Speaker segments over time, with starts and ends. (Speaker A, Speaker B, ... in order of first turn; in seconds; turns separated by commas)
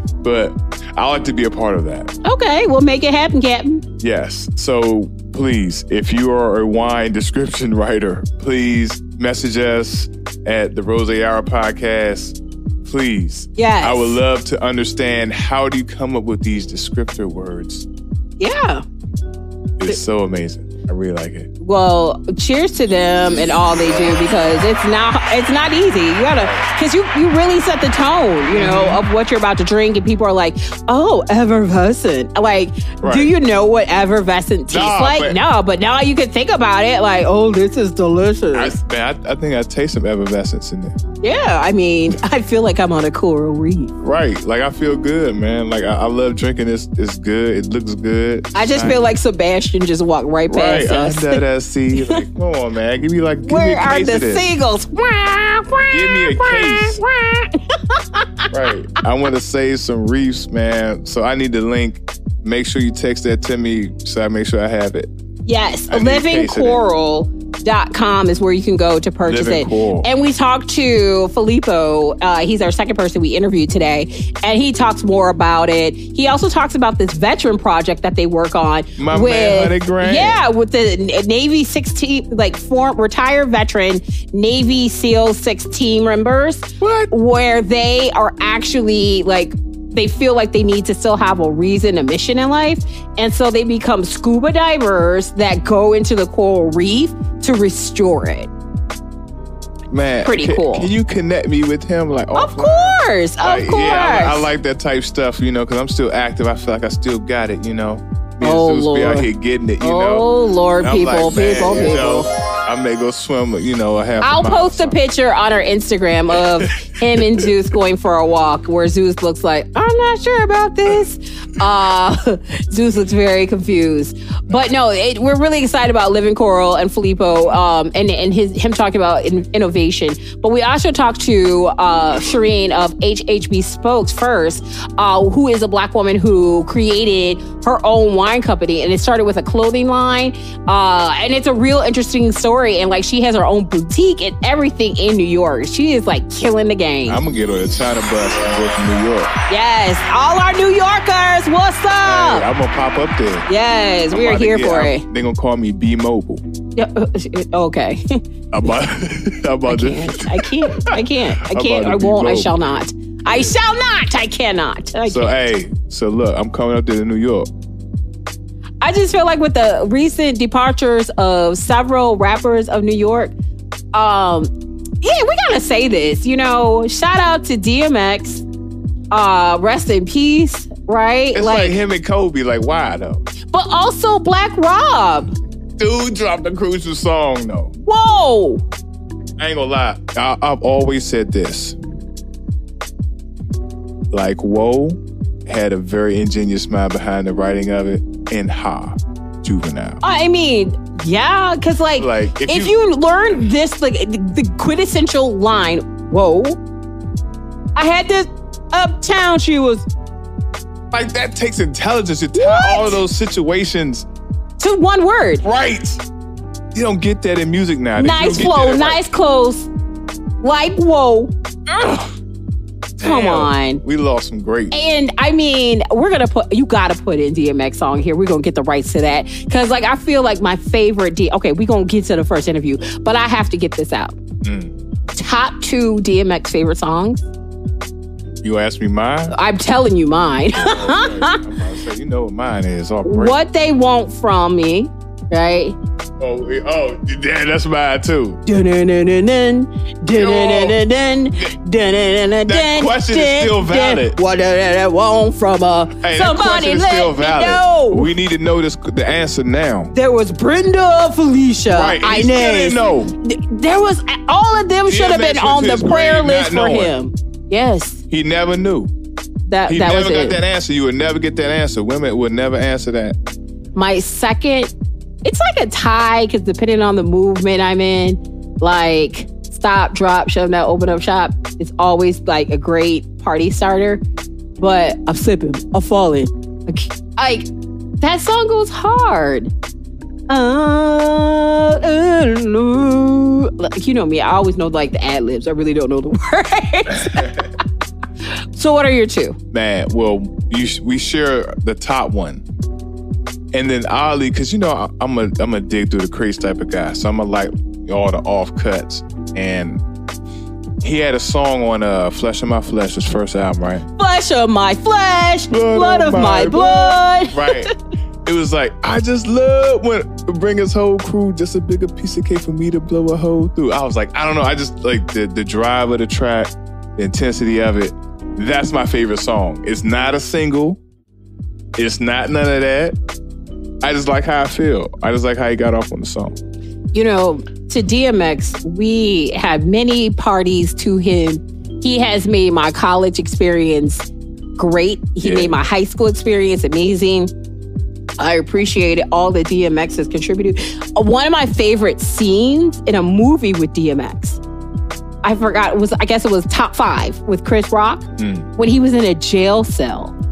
Speaker A: 0.2-2.1, Speaker B: 2.2-3.8, Speaker A: 4.0-17.9, Speaker B: 13.6-14.2, Speaker B: 18.4-18.9, Speaker A: 19.8-21.5, Speaker B: 21.6-38.8, Speaker A: 26.3-26.7, Speaker A: 28.5-29.0, Speaker A: 33.0-33.3, Speaker A: 34.7-35.4, Speaker A: 38.5-41.0, Speaker B: 41.2-43.9, Speaker A: 44.0-49.0, Speaker B: 48.5-51.4, Speaker A: 50.5-54.5, Speaker B: 53.4-58.5, Speaker A: 55.9-57.0, Speaker A: 58.5-65.1, Speaker B: 65.5-98.5, Speaker A: 65.9-66.8, Speaker A: 69.2-70.1, Speaker A: 79.0-80.4, Speaker A: 86.8-87.1, Speaker A: 99.9-115.0, Speaker B: 100.2-100.9, Speaker B: 102.3-104.5, Speaker B: 108.4-112.3, Speaker B: 114.2-147.2, Speaker A: 116.6-117.5, Speaker A: 147.1-149.3, Speaker B: 149.5-152.5, Speaker A: 152.0-153.5, Speaker B: 153.5-155.1, Speaker A: 154.1-156.4, Speaker B: 156.8-158.2, Speaker A: 158.5-162.5, Speaker B: 159.7-165.5, Speaker A: 165.1-167.5, Speaker B: 168.8-173.3, Speaker B: 173.9-178.4, Speaker B: 179.1-181.8, Speaker A: 181.3-183.2, Speaker B: 183.5-185.3, Speaker A: 185.8-187.7, Speaker B: 187.8-188.6, Speaker A: 189.4-191.8, Speaker A: 194.1-200.0, Speaker B: 200.0-206.6, Speaker A: 202.0-202.8, Speaker B: 207.8-209.9, Speaker A: 210.9-214.1, Speaker B: 212.3-213.0, Speaker B: 214.6-215.4, Speaker A: 215.4-216.0, Speaker A: 216.7-219.0, Speaker B: 218.0-219.7, Speaker B: 220.4-222.1, Speaker A: 223.0-224.8, Speaker B: 223.0-223.8, Speaker B: 224.7-234.2, Speaker A: 234.4-234.8, Speaker B: 235.2-237.3, Speaker A: 238.4-239.3, Speaker B: 239.3-241.4, Speaker A: 240.5-243.4, Speaker B: 243.0-245.8, Speaker A: 246.2-248.4, Speaker B: 248.5-258.1, Speaker A: 250.1-250.8, Speaker A: 252.4-254.2, Speaker A: 256.0-259.9, Speaker B: 259.9-268.0, Speaker A: 261.7-263.1, Speaker A: 264.9-266.9, Speaker A: 268.1-268.9, Speaker B: 269.5-270.4, Speaker A: 269.7-273.2, Speaker B: 273.8-274.7, Speaker B: 275.2-284.0, Speaker B: 284.6-287.5, Speaker B: 288.0-289.5, Speaker B: 290.3-297.5, Speaker B: 298.5-299.4, Speaker A: 299.5-302.5, Speaker A: 303.5-309.8, Speaker A: 310.8-313.9, Speaker B: 314.0-317.7, Speaker A: 315.5-317.7, Speaker A: 318.2-330.8, Speaker A: 331.8-333.0, Speaker A: 333.8-336.4, Speaker B: 336.9-347.3, Speaker A: 345.2-345.5, Speaker B: 348.2-354.4, Speaker B: 355.2-360.1, Speaker A: 358.2-358.5